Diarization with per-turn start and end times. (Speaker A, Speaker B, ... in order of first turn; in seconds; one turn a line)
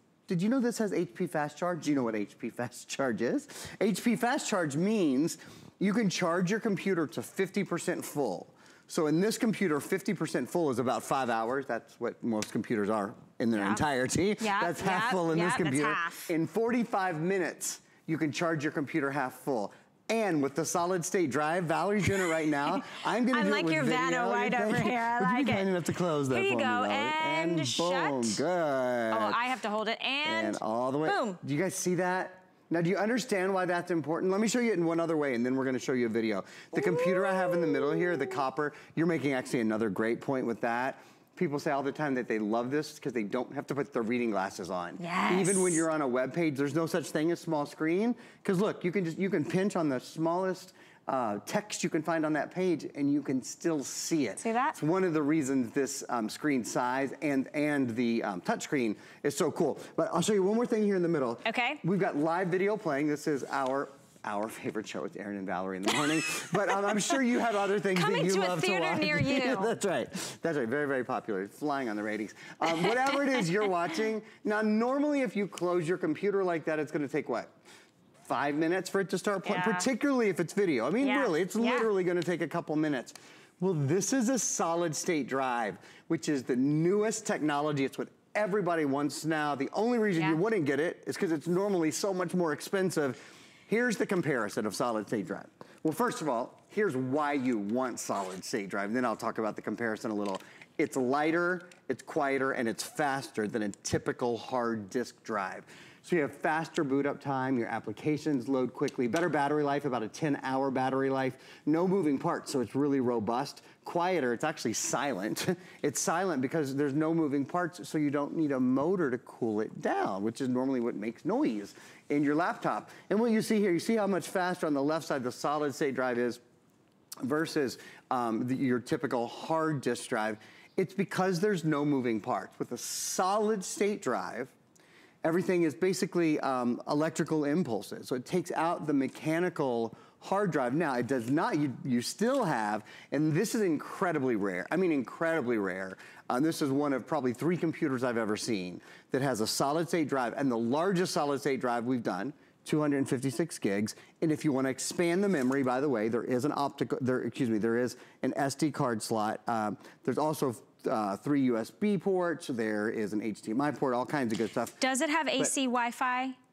Speaker A: 0.3-29.4
Speaker B: 13.6-13.8
Speaker B: 14.4-16.3
Speaker B: 23.3-25.7
Speaker B: 26.3-28.4
Speaker B: 29.1-31.4
Speaker A: 30.2-77.5
Speaker B: 36.7-38.3
Speaker B: 45.0-45.9
Speaker B: 54.4-54.8
Speaker B: 61.5-61.8
Speaker B: 67.9-69.7
Speaker B: 72.7-73.2
Speaker A: 78.2-126.4
Speaker B: 79.4-79.9
Speaker B: 81.0-81.9
Speaker A: 127.2-134.5
Speaker A: 135.2-164.8
Speaker B: 164.8-166.4